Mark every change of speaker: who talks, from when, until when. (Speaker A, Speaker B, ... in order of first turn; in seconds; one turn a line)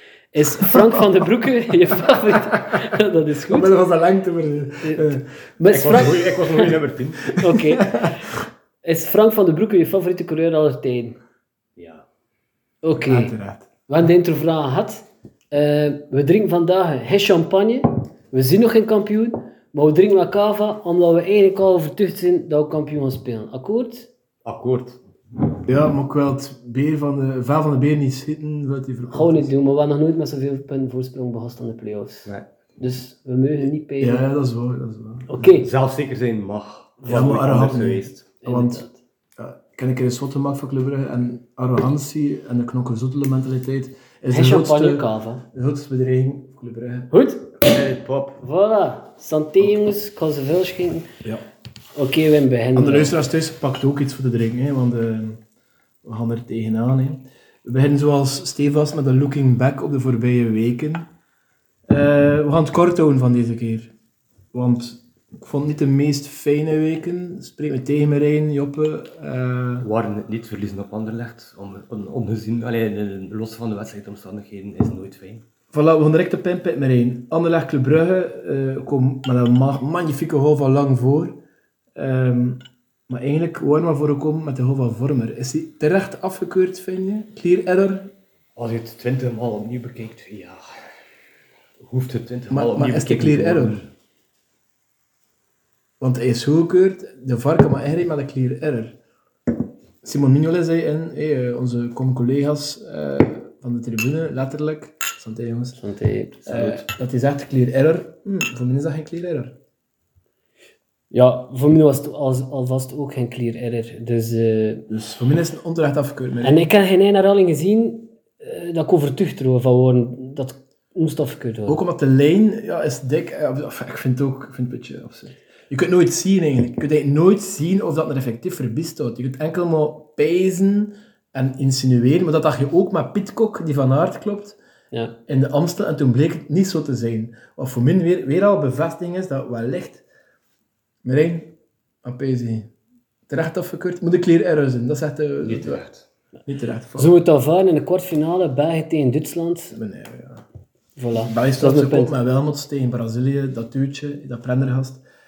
Speaker A: 0.3-3.8
Speaker B: 0.7-1.0
Speaker B: 3.5-5.2
Speaker A: 4.8-6.7
Speaker C: 5.7-7.4
Speaker B: 5.9-6.7
Speaker A: 7.4-8.0
Speaker B: 7.4-8.2
Speaker A: 8.8-11.2
Speaker C: 11.8-12.1
Speaker A: 12.8-13.3
Speaker B: 13.0-13.7
Speaker A: 13.9-24.1
Speaker C: 24.4-25.0
Speaker B: 25.6-29.5
Speaker A: 29.1-32.3
Speaker A: 32.8-34.2
Speaker B: 34.0-35.4
Speaker A: 35.3-35.7
Speaker C: 35.4-38.2
Speaker B: 37.0-38.9
Speaker A: 38.4-39.0
Speaker B: 39.4-47.1
Speaker A: 44.3-45.4
Speaker A: 47.1-47.5
Speaker C: 47.6-48.4
Speaker A: 48.4-51.1
Speaker A: 52.0-53.1
Speaker B: 52.8-55.4
Speaker B: 56.0-61.1
Speaker B: 61.9-63.9
Speaker B: 64.5-69.9
Speaker C: 69.8-75.4
Speaker B: 75.7-81.4
Speaker B: 82.0-88.1
Speaker C: 88.6-90.6
Speaker C: 91.8-93.9
Speaker B: 92.5-93.8
Speaker B: 96.0-99.0
Speaker B: 100.0-105.8
Speaker A: 105.8-106.5
Speaker B: 106.5-109.6
Speaker C: 106.5-106.8
Speaker A: 111.1-114.9
Speaker B: 114.9-116.7
Speaker A: 116.4-121.8
Speaker B: 121.7-134.6
Speaker A: 134.9-135.2
Speaker B: 135.3-140.0
Speaker B: 141.0-142.7
Speaker B: 143.3-145.8
Speaker C: 145.4-146.1
Speaker B: 146.5-147.2
Speaker A: 147.0-149.8
Speaker B: 149.7-150.4
Speaker A: 151.0-152.2
Speaker B: 151.2-155.0